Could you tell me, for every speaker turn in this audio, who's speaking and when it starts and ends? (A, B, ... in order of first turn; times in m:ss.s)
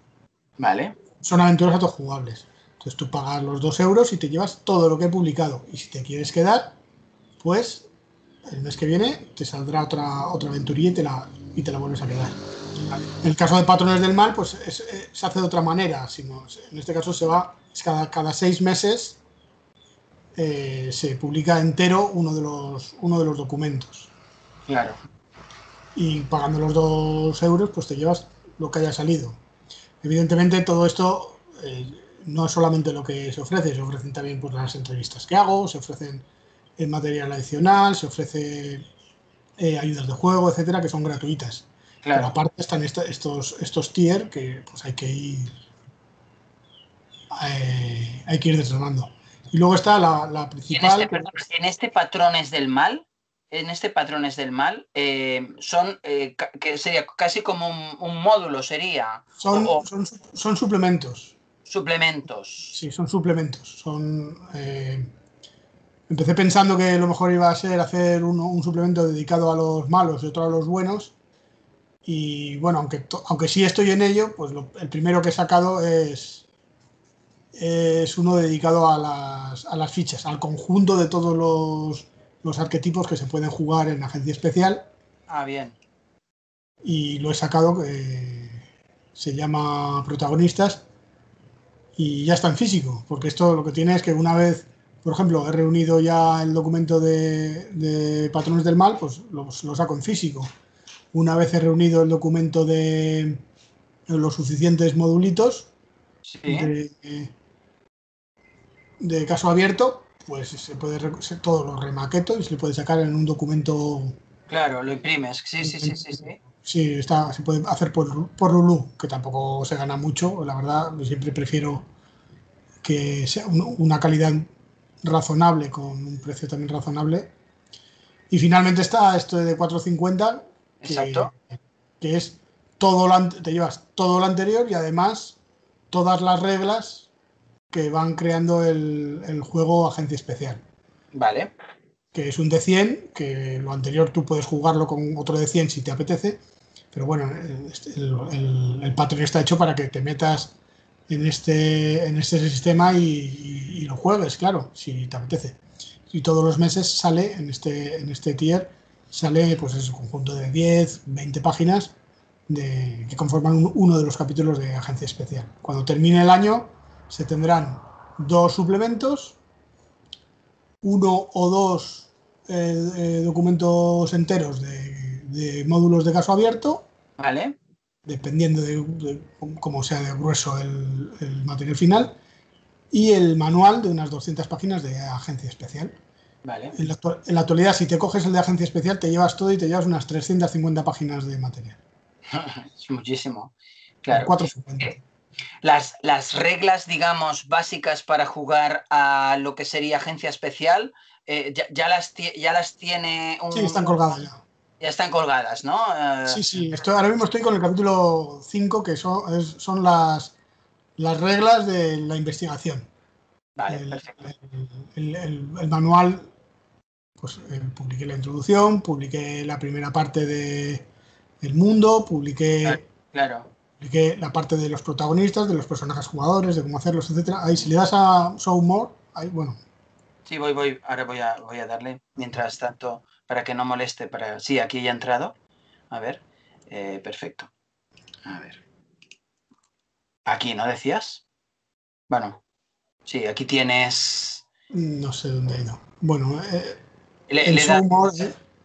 0:00.6-0:01.0 A
0:01.2-0:06.8 B
0:07.4-0:07.9 B
0:08.5-0:12.4 B
0:13.2-0:19.2 B
0:20.4-0:24.1 B
0:24.7-0:25.0 A
0:26.0-0:29.4 B
0:30.0-0:36.3 B
0:36.8-0:38.9 B
0:39.6-0:45.6 B
0:42.0-0:42.4 A
0:47.3-0:51.5 B
0:50.7-0:59.8 A
0:59.4-1:01.4 B
1:01.7-1:02.8 A
1:02.7-1:05.1 B
1:06.1-1:11.2 B
1:12.0-1:16.5 B
1:17.5-1:24.9 B
1:25.3-1:25.8 A
1:26.8-1:28.6 B
1:29.2-1:30.8 B
1:32.0-1:40.5 B
1:41.1-1:43.4 B
1:44.1-1:45.7 B
1:46.2-1:46.7 A
1:46.5-1:47.3 B
1:49.0-1:54.2 B
1:54.5-1:56.4 A
1:55.6-2:01.9 B
2:02.8-2:04.5 B
2:05.0-2:07.3 B
2:08.3-2:11.4 B
2:10.8-2:11.3 A
2:12.0-2:15.4 B
2:15.9-2:17.1 B
2:17.7-2:20.6 B
2:21.1-2:21.5 A
2:22.1-2:26.4 B
2:26.9-2:30.5 B
2:31.1-2:42.0 B
2:42.5-2:49.4 B
2:50.8-2:56.9 B
2:57.2-2:57.6 A
2:58.0-3:02.2 B
3:02.9-3:06.0 B
3:06.4-3:06.8 A
3:06.7-3:11.8 B
3:12.3-3:15.0 A
3:14.1-3:15.0 B
3:15.6-3:24.2 A
3:23.5-3:24.4 B
3:24.8-3:26.8 A
3:26.3-3:30.4 B
3:31.0-3:32.9 B
3:33.6-3:34.2 A
3:33.7-3:36.3 B
3:37.2-3:40.9 B
3:41.4-3:42.8 B
3:42.6-3:43.5 A
3:43.8-3:49.6 B
3:50.2-3:55.4 A
3:55.9-3:57.5 A
3:58.2-3:58.6 A
4:00.2-4:01.2 A
4:02.1-4:02.4 A
4:03.0-4:04.4 A
4:04.7-4:06.8 B
4:07.3-4:08.3 A
4:07.4-4:08.4 B